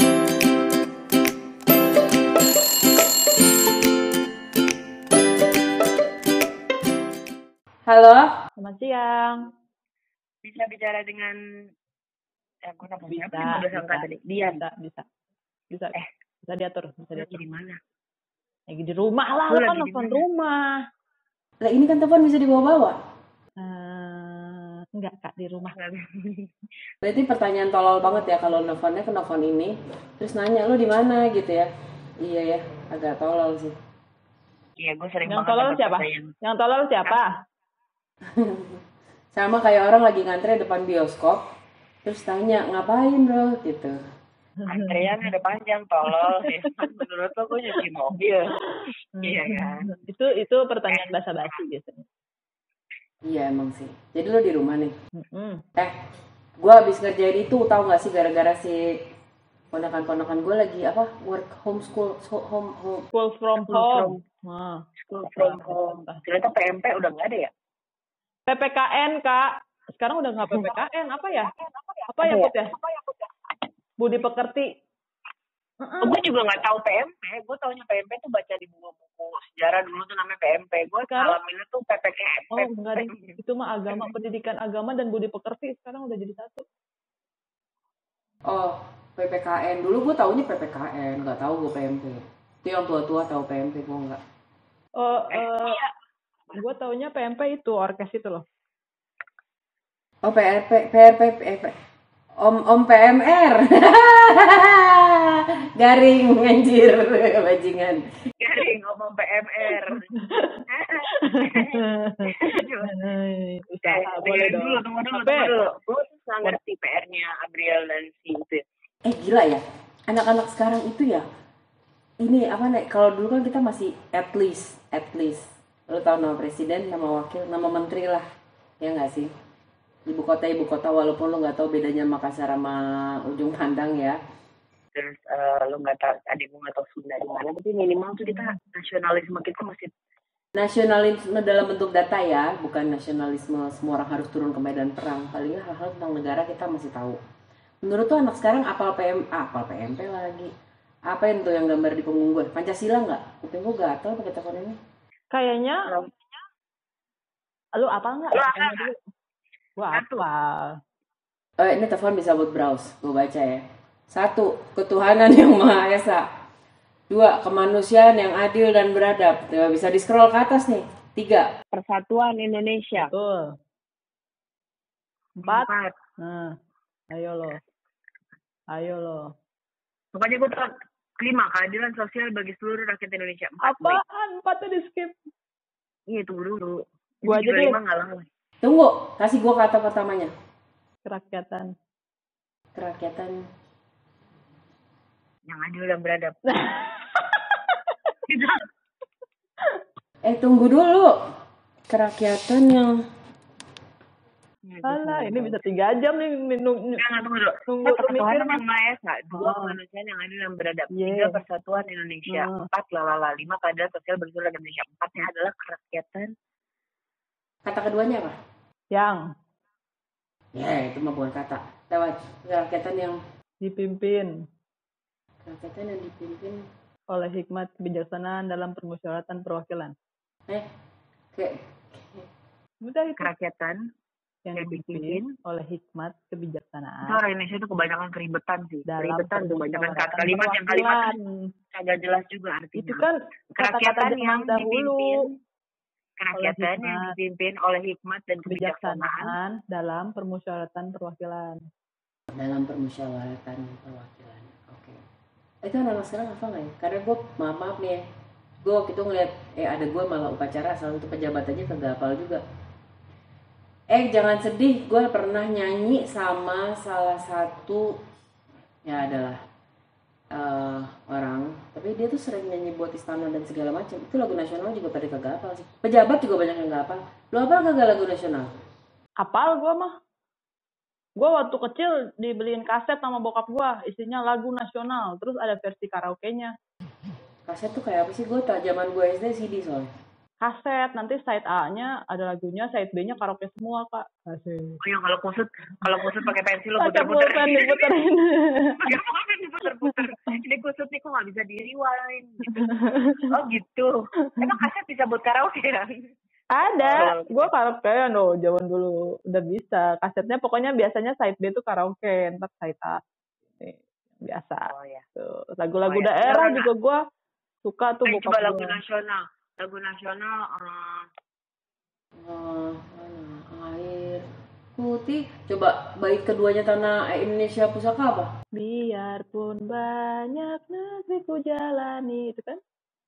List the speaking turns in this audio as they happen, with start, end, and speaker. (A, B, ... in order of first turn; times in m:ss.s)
0:07.9-0:08.3 A
0:08.6-0:09.5 B
0:10.4-0:11.4 C
0:12.7-0:14.6 C
0:13.0-0:15.0 B
0:15.7-0:17.4 B
0:17.1-0:17.7 C
0:18.7-0:20.6 B
0:19.5-0:20.2 C
0:21.6-0:22.9 A
0:23.6-0:25.7 B
0:25.7-0:26.5 C
0:27.0-0:31.7 A
0:32.2-0:33.7 A
0:34.8-0:36.3 C
0:35.3-0:37.3 B
0:38.3-0:38.8 A
0:39.3-0:41.4 A
0:42.0-0:44.0 A
0:44.7-0:45.3 B
0:44.7-0:48.7 C
0:49.1-0:52.0 B
0:49.2-0:49.9 C
0:50.9-0:51.6 C
0:53.2-0:54.9 A
0:55.2-0:55.6 B
0:56.6-0:58.8 A
0:59.7-1:03.0 A
1:03.1-1:06.2 B
1:03.6-1:04.2 C
1:05.0-1:07.5 C
1:08.5-1:11.5 B
1:10.5-1:10.7 C
1:11.5-1:13.3 C
1:12.1-1:12.7 B
1:14.0-1:14.6 B
1:15.8-1:16.2 B
1:16.0-1:23.4 C
1:21.1-1:21.4 B
1:22.5-1:26.6 B
1:28.5-1:34.2 A
1:35.0-1:35.8 B
1:35.3-1:35.9 C
1:36.5-1:38.4 B
1:40.2-1:41.7 A
1:42.4-1:48.0 A
1:48.4-1:50.1 C
1:50.1-1:50.6 B
1:50.7-1:53.0 C
1:51.2-1:55.5 B
1:53.8-1:58.6 C
1:59.0-2:01.2 A
2:02.2-2:08.2 A
2:08.8-2:09.3 A
2:10.1-2:14.2 A
2:14.9-2:19.9 C
2:20.5-2:27.2 A
2:27.8-2:30.5 A
2:31.1-2:34.8 A
2:35.3-2:35.9 B
2:37.8-2:39.0 B
2:38.3-2:38.9 C
2:39.8-2:40.7 B
2:39.9-2:40.2 C
2:41.6-2:46.2 A
2:47.1-2:51.5 A
2:51.7-2:53.1 C
2:53.0-2:53.4 B
2:55.4-2:56.5 B
2:55.4-2:55.9 C
2:57.1-2:57.6 B
2:58.7-2:59.2 B
3:00.1-3:00.7 C
3:01.2-3:04.0 C
3:03.6-3:05.2 B
3:06.1-3:08.2 C
3:07.2-3:07.8 B
3:08.6-3:10.3 A
3:11.0-3:11.7 B
3:12.7-3:13.3 A
3:15.4-3:16.4 C
3:16.4-3:17.7 B
3:18.3-3:18.6 C
3:20.2-3:21.1 A
3:21.9-3:22.9 A
3:24.6-3:25.6 C
3:24.8-3:27.0 B
3:27.0-3:36.3 C
3:27.7-3:28.6 B
3:29.3-3:29.8 B
3:30.9-3:31.4 B
3:32.3-3:32.7 B
3:37.6-3:38.3 A
3:38.9-3:39.2 B
3:40.5-3:43.2 A
3:43.6-3:44.3 B
3:45.4-3:46.6 A
3:47.1-3:49.9 B
3:51.3-3:52.2 A
3:52.8-3:53.3 B
3:53.2-3:53.8 C
3:54.4-3:57.2 B
3:54.5-3:55.3 C
3:57.0-4:01.1 C
3:58.9-4:01.5 B
4:01.7-4:05.3 C
4:02.8-4:05.2 B
4:06.2-4:09.3 C
4:06.3-4:07.1 B
4:08.4-4:11.6 B
4:12.3-4:15.0 A
4:15.6-4:18.0 A
4:18.6-4:22.4 A
4:23.9-4:27.9 A
4:28.8-4:29.4 A
4:30.3-4:38.6 A
4:39.2-4:39.9 B
4:41.2-4:46.5 B
4:47.4-4:49.9 A
4:50.4-4:54.8 B
4:54.8-4:57.9 C
4:56.8-4:58.8 B
4:58.8-5:02.7 C
4:59.7-5:00.0 B
5:02.6-5:03.3 B
5:03.3-5:05.9 C
5:06.5-5:13.0 B
5:06.8-5:07.5 C
5:13.6-5:14.6 B
5:14.7-5:15.0 C
5:15.2-5:17.0 B
5:15.8-5:16.7 C
5:17.6-5:18.8 B
5:18.0-5:21.0 C
5:22.2-5:24.2 A
5:24.8-5:28.3 A
5:28.5-5:32.6 B